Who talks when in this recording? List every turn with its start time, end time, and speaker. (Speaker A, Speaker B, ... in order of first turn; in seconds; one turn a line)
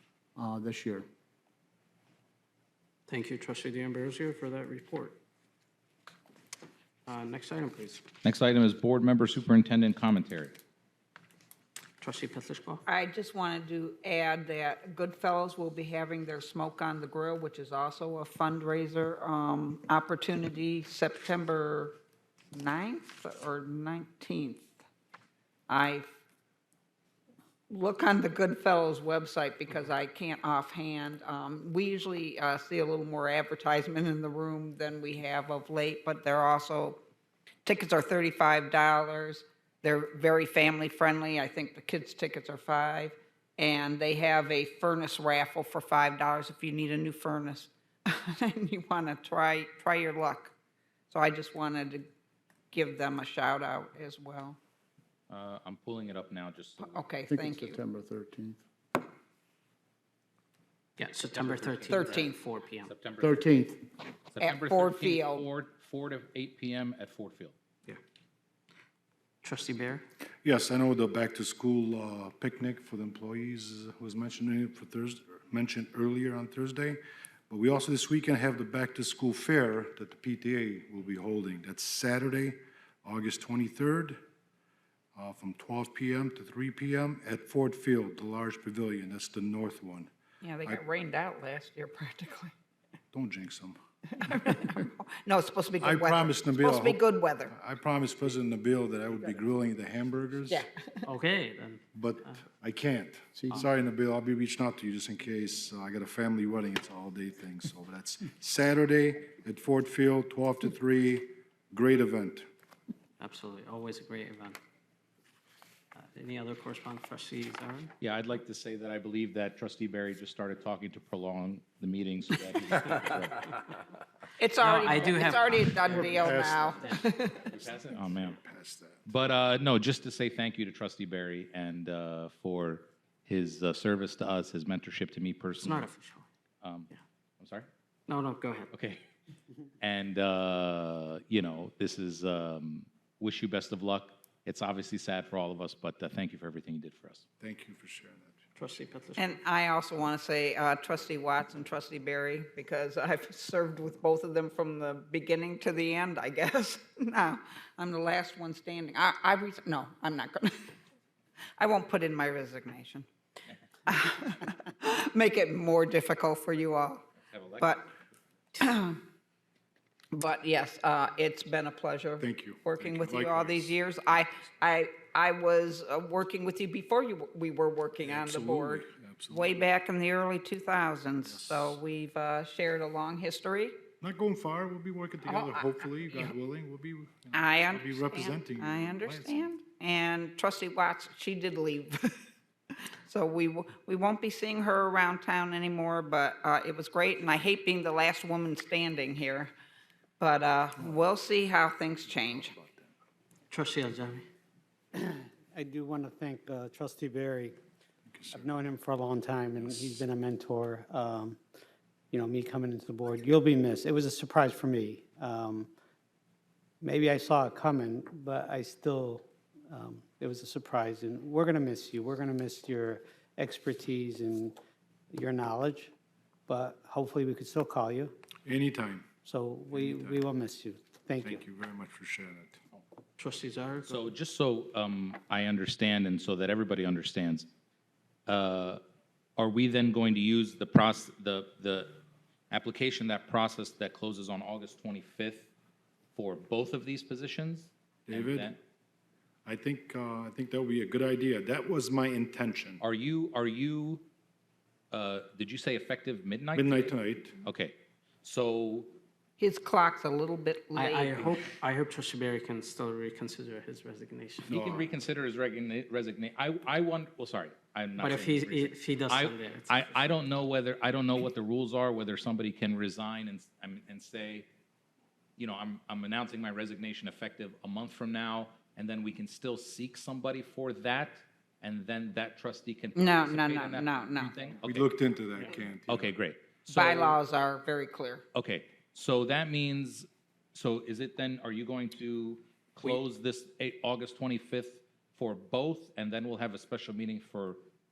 Speaker A: 0.4-1.1
Speaker B: 3.1-5.2
Speaker B: 7.1-8.0
Speaker C: 8.2-10.6
Speaker B: 12.0-12.8
Speaker D: 12.9-21.9
Speaker D: 22.5-24.7
Speaker D: 25.7-26.1
Speaker D: 27.7-37.0
Speaker D: 37.7-50.5
Speaker D: 51.1-52.1
Speaker D: 52.7-54.6
Speaker C: 55.3-57.1
Speaker D: 56.8-57.8
Speaker A: 57.3-58.6
Speaker B: 61.0-62.9
Speaker C: 61.3-62.3
Speaker D: 61.9-62.4
Speaker C: 62.9-63.5
Speaker A: 63.2-63.9
Speaker C: 64.3-67.5
Speaker D: 64.4-65.5
Speaker B: 69.4-70.0
Speaker E: 70.4-84.2
Speaker E: 85.2-90.1
Speaker D: 90.4-92.5
Speaker E: 93.1-93.8
Speaker D: 94.1-97.5
Speaker E: 95.8-100.6
Speaker D: 100.5-101.0
Speaker B: 101.1-101.9
Speaker E: 101.9-112.5
Speaker A: 103.4-103.6
Speaker B: 113.2-114.6
Speaker B: 116.0-117.9
Speaker C: 118.0-123.5
Speaker D: 124.4-127.5
Speaker B: 124.6-127.0
Speaker E: 125.8-129.1
Speaker C: 127.5-128.4
Speaker C: 129.1-135.9
Speaker B: 135.6-136.3
Speaker C: 136.6-137.7
Speaker B: 138.1-138.7
Speaker C: 138.7-139.0
Speaker C: 139.8-147.2
Speaker E: 147.4-148.4
Speaker B: 148.6-149.4
Speaker D: 149.2-160.6
Speaker D: 161.6-163.1
Speaker D: 163.9-167.1
Speaker C: 167.3-167.8
Speaker D: 167.6-167.9
Speaker D: 168.6-169.0
Speaker D: 170.1-183.8
Speaker E: 172.2-173.7
Speaker E: 178.1-179.6
Speaker E: 181.3-181.7
Speaker E: 184.0-189.5
Speaker D: 185.3-186.3
Speaker D: 187.3-192.1
Speaker D: 193.1-199.5
Speaker D: 200.2-202.6
Speaker E: 202.1-202.9
Speaker B: 203.5-204.3
Speaker F: 204.9-207.6
Speaker E: 208.1-208.6
Speaker F: 208.3-211.4
Speaker E: 209.6-210.0
Speaker F: 212.1-215.7
Speaker F: 216.8-224.6
Speaker F: 225.1-225.9
Speaker F: 226.5-228.1
Speaker E: 228.5-229.1
Speaker F: 229.2-231.4
Speaker E: 229.7-230.2
Speaker E: 231.2-232.6
Speaker B: 233.2-234.1
Speaker C: 233.9-237.5
Speaker C: 238.3-238.8
Speaker C: 239.4-242.0
Speaker C: 242.5-245.5
Speaker C: 246.2-248.6
Speaker E: 248.1-248.5
Speaker E: 249.4-252.8
Speaker C: 252.8-254.1
Speaker C: 254.9-258.9
Speaker E: 256.5-257.4
Speaker D: 259.4-261.4
Speaker B: 260.7-264.6
Speaker E: 264.5-264.9
Speaker C: 264.5-274.5
Speaker B: 268.0-270.1
Speaker C: 275.4-285.0
Speaker D: 282.9-284.4
Speaker E: 284.6-286.1
Speaker C: 285.9-287.0
Speaker D: 286.7-288.2
Speaker C: 288.3-297.6